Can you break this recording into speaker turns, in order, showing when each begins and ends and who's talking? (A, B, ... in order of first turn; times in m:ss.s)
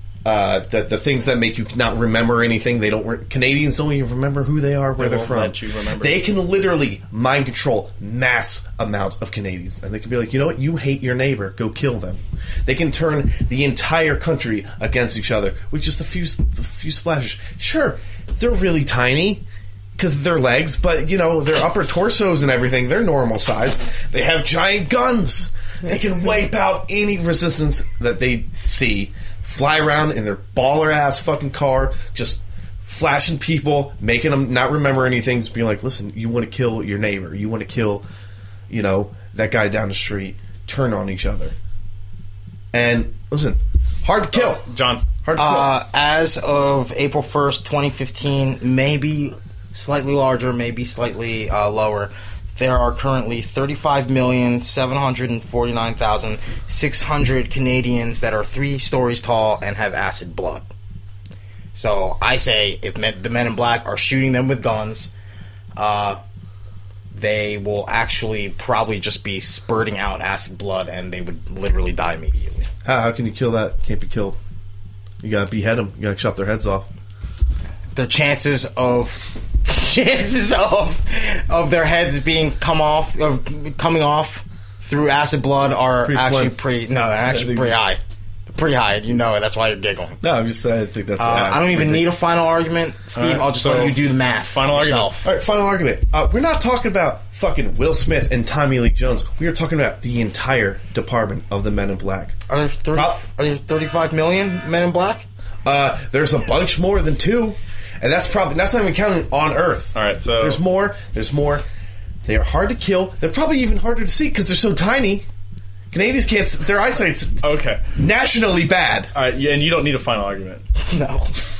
0:00.2-0:19.4 A
0:05.0-0:06.2 B
0:20.0-0:38.0 A
0:38.7-0:41.5 A
0:42.7-0:44.6 A
0:44.3-0:45.0 B
0:45.2-0:45.7 A
0:45.4-1:00.7 C
1:01.7-1:05.1 C
1:05.8-1:06.2 C
1:07.1-1:12.7 C
1:12.8-1:14.4 A
1:15.2-1:16.9 A
1:17.9-1:30.2 C
1:26.0-1:26.6 A
1:27.2-1:27.8 A
1:30.2-1:32.1 A
1:31.2-1:35.2 C
1:33.2-1:35.2 B
1:35.2-1:42.4 A
1:42.5-1:45.2 C
1:42.9-1:43.2 A
1:45.6-1:51.6 A
1:49.9-1:50.6 B
1:52.2-1:55.2 A
1:55.9-1:57.4 A
1:57.4-1:57.8 B
1:57.9-1:59.1 A
1:59.1-2:00.6 B
2:00.8-2:01.4 C